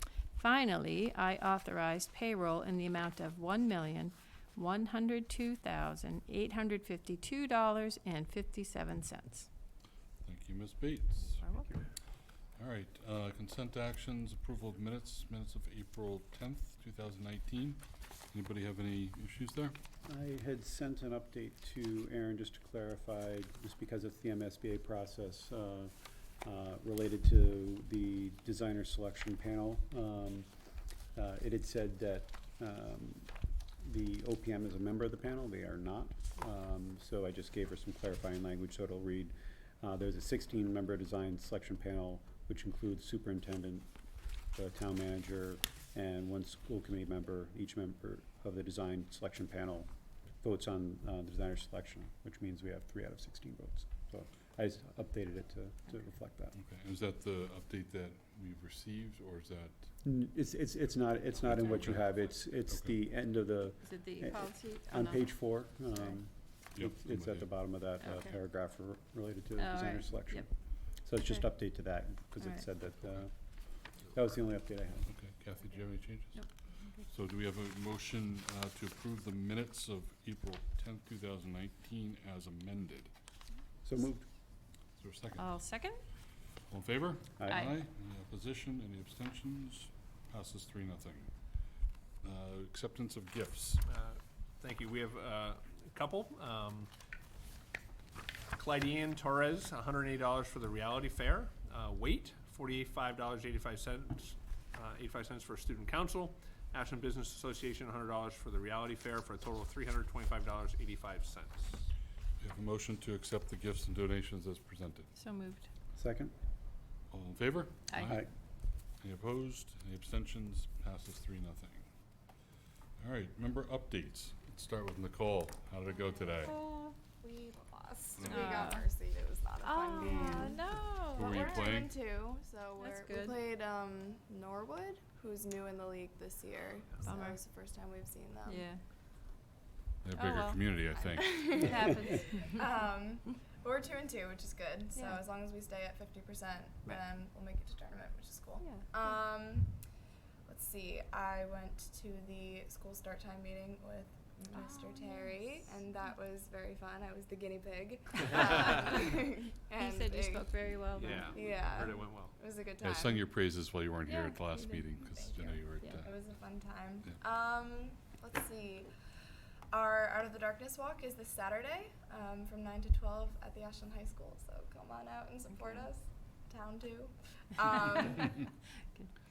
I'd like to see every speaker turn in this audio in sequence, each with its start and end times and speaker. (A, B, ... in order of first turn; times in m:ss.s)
0:00.3-0:09.5 A
0:10.2-0:11.4 B
0:11.4-0:11.7 A
0:12.6-0:19.8 B
0:20.0-0:30.5 C
0:31.1-0:43.9 C
0:44.5-0:56.6 C
0:56.5-0:59.9 B
1:00.0-1:13.3 C
1:01.5-1:02.9 B
1:03.8-1:05.3 A
1:06.7-1:07.5 B
1:08.0-1:08.3 A
1:09.6-1:10.5 A
1:14.1-1:15.1 C
1:15.1-1:16.5 B
1:17.0-1:23.1 B
1:23.8-1:24.2 C
1:25.0-1:25.5 B
1:25.4-1:26.0 A
1:26.7-1:31.3 B
1:27.4-1:27.7 C
1:27.5-1:27.7 A
1:32.2-1:33.8 B
1:33.9-1:36.9 D
1:38.5-1:51.8 D
1:52.4-1:55.1 B
1:55.2-1:55.7 A
1:55.9-1:56.3 C
1:57.1-1:58.2 B
1:57.9-1:58.2 A
1:59.0-2:01.8 B
2:03.0-2:06.6 B
2:06.4-2:07.0 A
2:07.2-2:10.6 E
2:08.2-2:08.8 B
2:08.2-2:08.8 A
2:09.6-2:11.8 A
2:11.1-2:12.0 B
2:11.1-2:18.7 E
2:12.8-2:13.4 A
2:17.0-2:17.4 A
2:18.4-2:18.8 A
2:20.0-2:21.7 B
2:20.2-2:20.6 A
2:21.0-2:29.8 E
2:21.6-2:22.5 A
2:25.0-2:25.2 A
2:28.6-2:29.2 A
2:30.5-2:43.2 E
2:34.5-2:35.4 A
2:39.8-2:41.4 A
2:40.9-2:42.3 D
2:42.8-2:46.3 B
2:44.1-2:44.8 A
2:45.4-2:48.9 E
2:49.7-2:58.5 E
2:55.5-2:55.9 A